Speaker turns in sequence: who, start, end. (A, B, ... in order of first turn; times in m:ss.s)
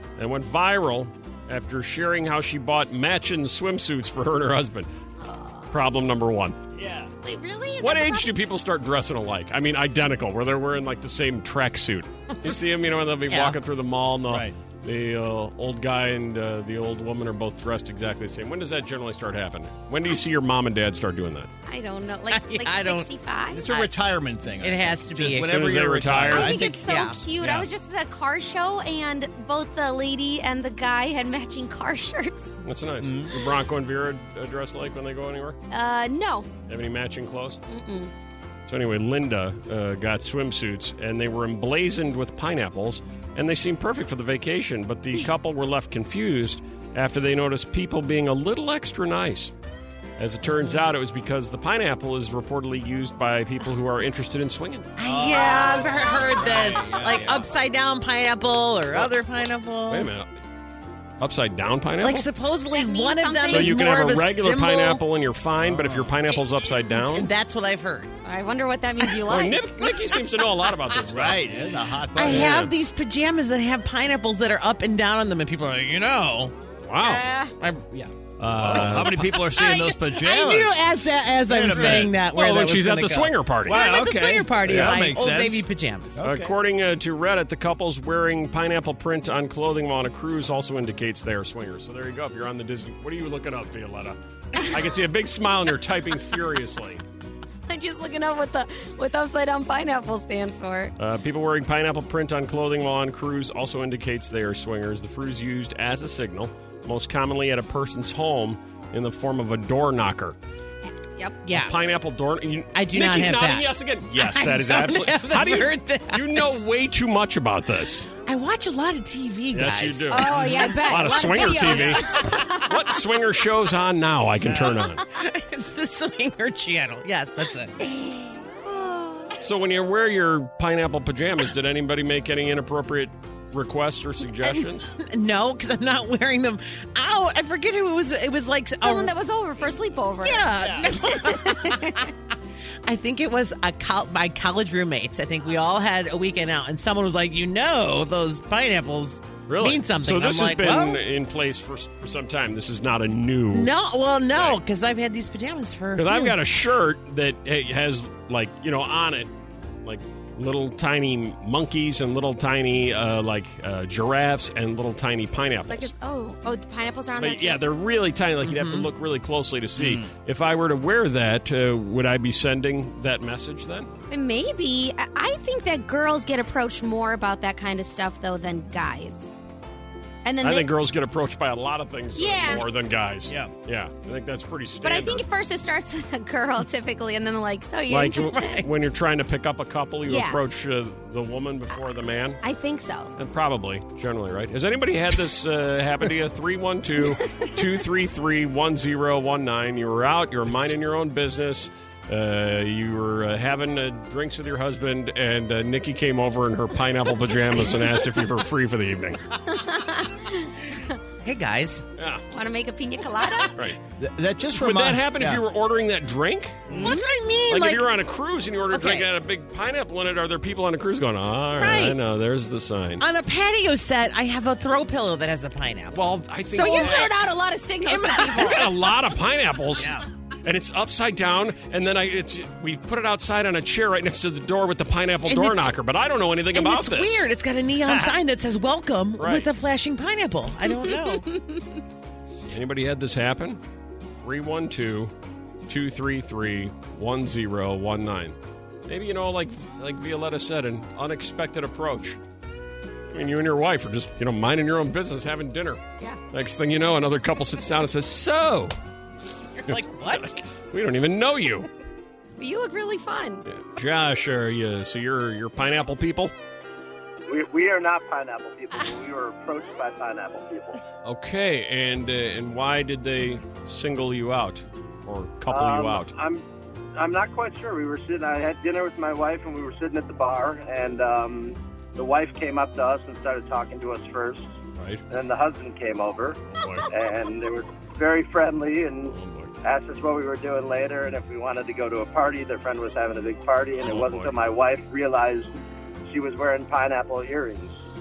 0:00.2-0:04.9 A
0:05.2-0:05.8 B
0:05.7-0:06.6 A
0:06.8-0:07.1 C
0:07.2-0:08.3 B
0:07.8-0:21.5 A
0:13.3-0:13.6 D
0:14.3-0:14.6 C
0:21.7-0:23.6 B
0:22.3-0:23.1 D
0:23.5-0:26.8 C
0:23.7-0:23.9 D
0:24.6-0:25.7 D
0:25.4-0:26.6 A
0:26.3-0:32.5 B
0:26.8-0:27.2 D
0:27.4-0:27.7 C
0:32.6-0:35.6 A
0:33.0-0:33.3 C
0:35.7-0:36.5 B
0:36.7-0:37.6 A
0:37.7-0:38.1 B
0:38.7-0:49.5 A
0:50.2-0:54.9 A
0:55.0-1:00.1 D
0:55.0-0:57.5 C
0:56.4-0:57.4 A
0:59.9-1:00.3 A
1:01.2-1:02.3 A
1:02.0-1:05.0 D
1:02.7-1:03.9 B
1:03.5-1:07.3 A
1:05.6-1:06.2 C
1:06.3-1:08.1 D
1:08.2-1:09.6 B
1:09.3-1:11.4 A
1:11.1-1:12.7 C
1:12.2-1:16.5 D
1:12.2-1:12.8 A
1:16.8-1:17.2 A
1:17.0-1:17.5 B
1:17.6-1:18.1 D
1:18.4-1:19.2 A
1:18.6-1:22.2 C
1:18.7-1:26.2 D
1:21.7-1:23.8 A
1:23.7-1:25.6 C
1:24.6-1:25.2 A
1:26.1-1:26.6 C
1:26.2-1:37.0 A
1:37.7-1:40.9 B
1:41.0-1:50.4 A
1:51.4-1:51.8 D
1:51.5-1:58.1 A
1:52.7-1:56.6 D
1:58.3-2:02.4 D
1:59.5-2:05.0 A
2:00.1-2:02.7 B
2:04.4-2:04.7 C
2:04.5-2:07.8 D
2:08.6-2:09.3 B
2:09.4-2:14.9 A
2:14.4-2:19.1 D
2:18.8-2:22.0 B
2:20.2-2:22.1 D
2:20.6-2:20.9 C
2:22.8-2:31.0 D
2:29.5-2:33.7 A
2:33.5-2:36.4 D
2:34.3-2:34.6 A
2:36.0-2:39.3 A
2:39.8-2:45.9 A
2:45.7-2:47.6 B
2:47.2-2:53.9 A
2:48.4-2:48.9 D
2:49.8-2:50.1 C
2:54.1-2:59.3 B
3:00.2-3:00.7 B
3:00.4-3:05.2 A
3:02.2-3:02.6 B
3:04.8-3:08.6 B
3:07.9-3:12.4 A
3:10.1-3:10.4 B
3:12.4-3:13.1 B
3:13.2-3:29.2 A
3:29.5-3:30.5 B
3:31.2-3:31.8 D
3:32.0-3:32.2 A
3:32.3-3:33.5 B
3:34.0-3:35.4 C
3:34.6-3:36.8 A
3:36.7-3:37.0 C
3:36.7-3:37.9 D
3:36.8-3:37.1 B
3:37.5-3:43.0 A
3:38.7-3:39.1 D
3:41.6-3:42.0 D
3:43.0-3:46.0 D
3:45.9-3:47.1 A
3:46.5-3:47.1 D
3:46.5-3:48.6 B
3:47.8-3:48.9 D
3:48.4-3:57.3 A
3:49.8-3:50.0 C
3:55.2-3:55.7 D
3:56.5-4:01.2 D
3:57.8-3:58.1 C
3:59.2-3:59.5 A
4:00.6-4:01.8 B
4:02.5-4:03.6 A
4:04.2-4:05.1 A
4:05.7-4:08.4 A
4:08.9-4:12.2 A
4:13.1-4:18.8 A
4:19.6-4:20.4 D
4:19.7-4:21.7 A
4:22.4-4:23.4 B
4:23.5-4:26.3 A
4:27.3-4:30.8 E
4:31.0-4:36.1 A
4:35.5-4:36.4 E
4:37.0-4:44.4 E
4:44.8-4:45.0 A
4:45.1-4:55.5 E
4:46.5-4:46.9 A
4:49.1-4:49.5 A
4:53.8-4:54.3 A
4:56.0-4:57.7 E